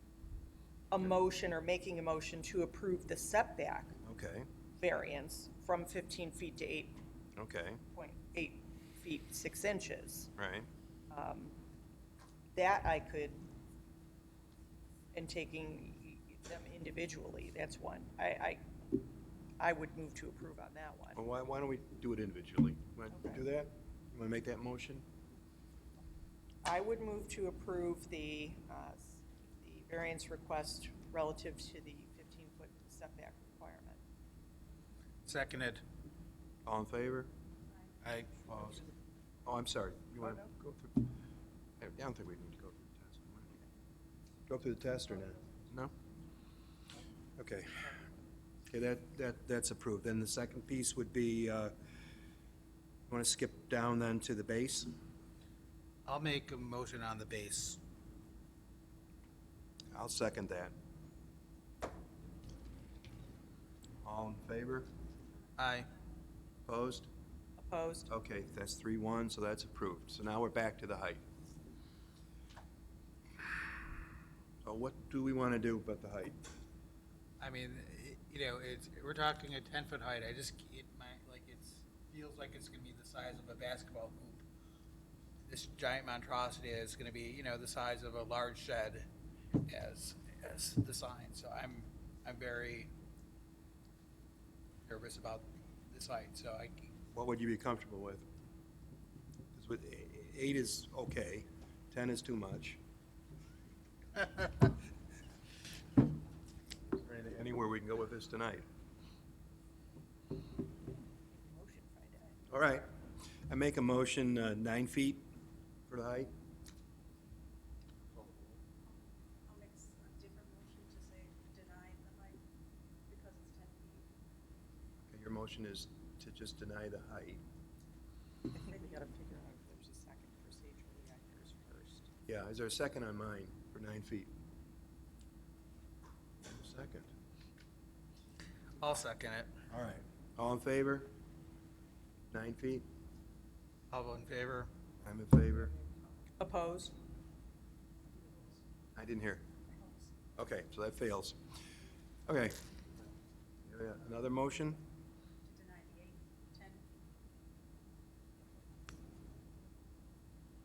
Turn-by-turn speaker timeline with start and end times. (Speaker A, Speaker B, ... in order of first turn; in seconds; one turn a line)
Speaker A: 0.9-3.9
Speaker B: 4.0-4.5
Speaker A: 4.8-7.0
Speaker B: 7.4-7.8
Speaker A: 7.9-10.3
Speaker B: 10.4-10.7
Speaker A: 11.1-11.6
Speaker A: 12.6-13.4
Speaker A: 15.1-18.6
Speaker A: 19.6-21.2
Speaker B: 21.1-25.0
Speaker A: 23.1-23.4
Speaker A: 26.6-34.0
Speaker C: 35.3-35.8
Speaker B: 36.6-37.3
Speaker C: 38.0-38.5
Speaker B: 38.5-38.8
Speaker B: 39.5-41.1
Speaker B: 41.8-43.5
Speaker B: 44.5-45.9
Speaker B: 47.4-47.9
Speaker B: 48.7-51.7
Speaker B: 53.1-54.9
Speaker C: 56.1-57.8
Speaker B: 59.9-60.8
Speaker B: 64.0-64.9
Speaker C: 65.6-65.9
Speaker B: 66.7-67.1
Speaker A: 67.6-68.1
Speaker B: 68.1-71.2
Speaker B: 74.6-76.4
Speaker C: 77.4-84.4
Speaker C: 85.5-89.1
Speaker C: 89.7-92.9
Speaker C: 94.9-96.9
Speaker B: 97.1-98.2
Speaker B: 99.5-102.8
Speaker B: 107.0-108.7
Speaker A: 111.3-112.3
Speaker B: 112.5-112.9
Speaker B: 113.5-115.3
Speaker B: 115.9-116.3
Speaker D: 119.5-122.3
Speaker D: 123.1-123.8
Speaker B: 125.1-127.4
Speaker A: 128.5-132.1
Speaker B: 132.3-134.3
Speaker B: 136.4-137.1
Speaker C: 138.8-139.5
Speaker B: 139.7-141.1
Speaker B: 142.3-142.8
Speaker C: 143.9-144.7
Speaker B: 145.0-145.8
Speaker A: 146.4-146.9
Speaker B: 148.9-149.4
Speaker B: 150.3-151.4
Speaker B: 152.3-152.6
Speaker B: 153.7-154.8
Speaker D: 155.6-156.2